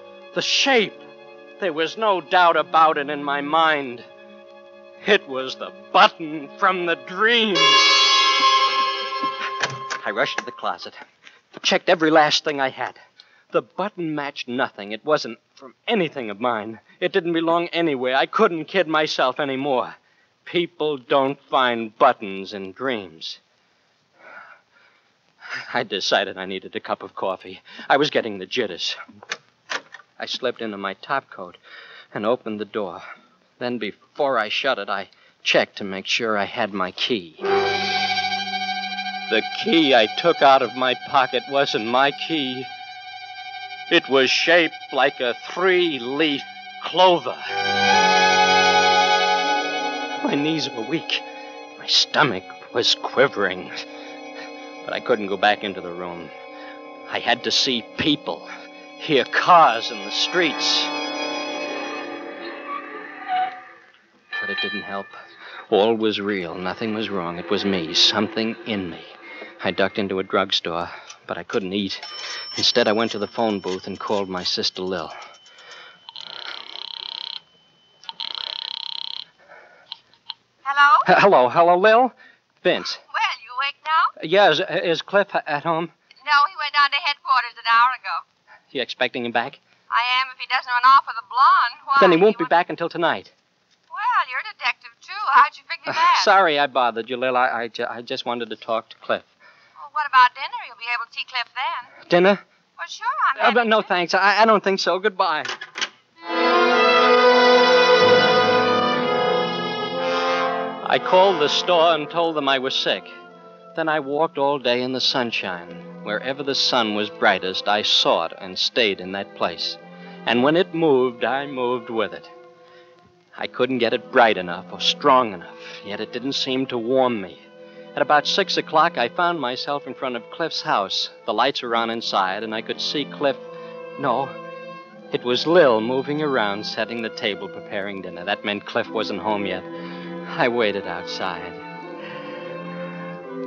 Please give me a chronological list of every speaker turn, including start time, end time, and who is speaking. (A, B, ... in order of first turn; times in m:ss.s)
0:00.3-0:01.0 A
0:01.6-0:04.1 A
0:05.0-0:08.1 A
0:10.0-0:11.0 A
0:11.6-0:13.0 A
0:13.5-0:23.4 A
0:25.7-0:29.0 A
0:30.2-0:31.6 A
0:32.1-0:33.0 A
0:33.6-0:37.4 A
0:39.3-0:42.7 A
0:43.9-0:47.4 A
0:50.2-0:51.2 A
0:51.8-0:53.7 A
0:54.8-0:56.3 A
0:57.1-1:00.9 A
1:04.3-1:05.2 A
1:05.7-1:12.0 A
1:12.6-1:15.1 A
1:20.6-1:21.1 B
1:21.0-1:23.0 A
1:23.1-1:24.1 B
1:24.2-1:25.9 A
1:26.2-1:28.2 B
1:28.7-1:29.6 A
1:29.9-1:32.5 B
1:32.0-1:33.3 A
1:33.9-1:36.3 B
1:35.9-1:39.3 A
1:39.8-1:41.9 B
1:42.1-1:42.4 A
1:42.8-1:43.9 B
1:43.4-1:45.5 A
1:50.8-1:53.1 A
1:53.7-2:02.3 A
2:03.4-2:07.4 A
2:07.9-2:13.4 A
2:14.0-2:14.3 A
2:15.1-2:19.7 A
2:20.3-2:21.6 A